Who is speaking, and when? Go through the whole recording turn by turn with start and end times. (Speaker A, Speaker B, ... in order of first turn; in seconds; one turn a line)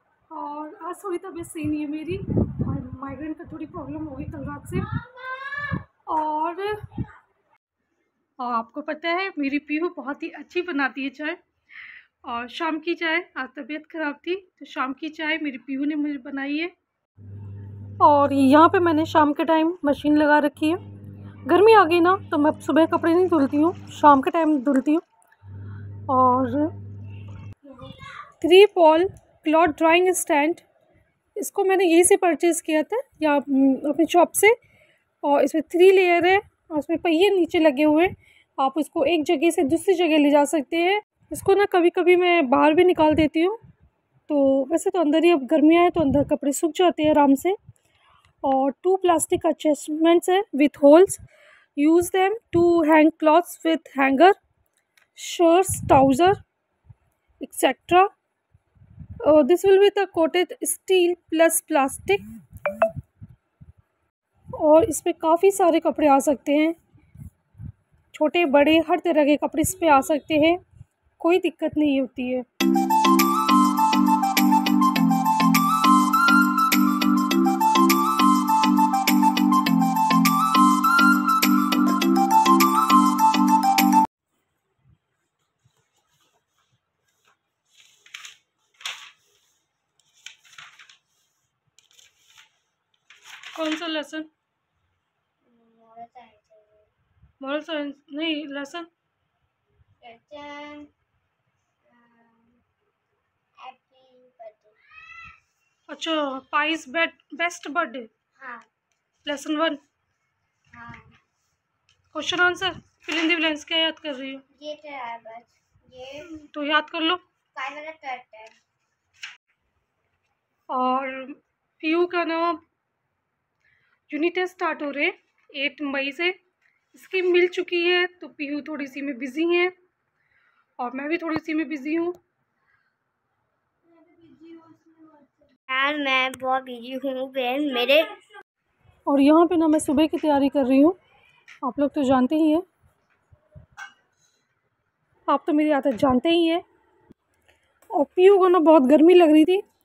Speaker A: 0.3-7.0
Speaker A: 8.4-11.4
Speaker A: 12.2-16.7
Speaker A: 18.0-20.8
Speaker A: 21.4-25.0
Speaker A: 26.1-26.7
Speaker A: 27.6-30.6
Speaker A: 31.4-34.5
Speaker A: 35.2-43.6
Speaker A: 44.3-47.6
Speaker A: 48.4-51.2
Speaker A: 51.8-54.4
Speaker A: 55.1-56.4
Speaker A: 57.4-58.1
Speaker A: 59.2-62.2
Speaker A: 64.6-66.8
Speaker A: 68.1-70.6
Speaker A: 71.2-72.4
Speaker A: 93.5-94.3
Speaker B: 95.4-96.9
Speaker A: 97.4-98.9
Speaker B: 100.0-100.9
Speaker B: 101.8-102.6
Speaker B: 103.6-104.8
Speaker A: 105.9-108.1
Speaker B: 108.3-108.7
Speaker A: 109.2-109.8
Speaker B: 110.7-111.2
Speaker A: 112.1-114.4
Speaker B: 114.5-116.3
Speaker A: 116.3-117.2
Speaker B: 117.5-118.5
Speaker A: 120.7-122.6
Speaker A: 124.1-126.3
Speaker A: 126.9-129.7
Speaker A: 130.8-132.2
Speaker B: 135.7-138.2
Speaker A: 139.1-141.0
Speaker A: 141.6-142.6
Speaker A: 145.3-146.6
Speaker A: 147.9-149.6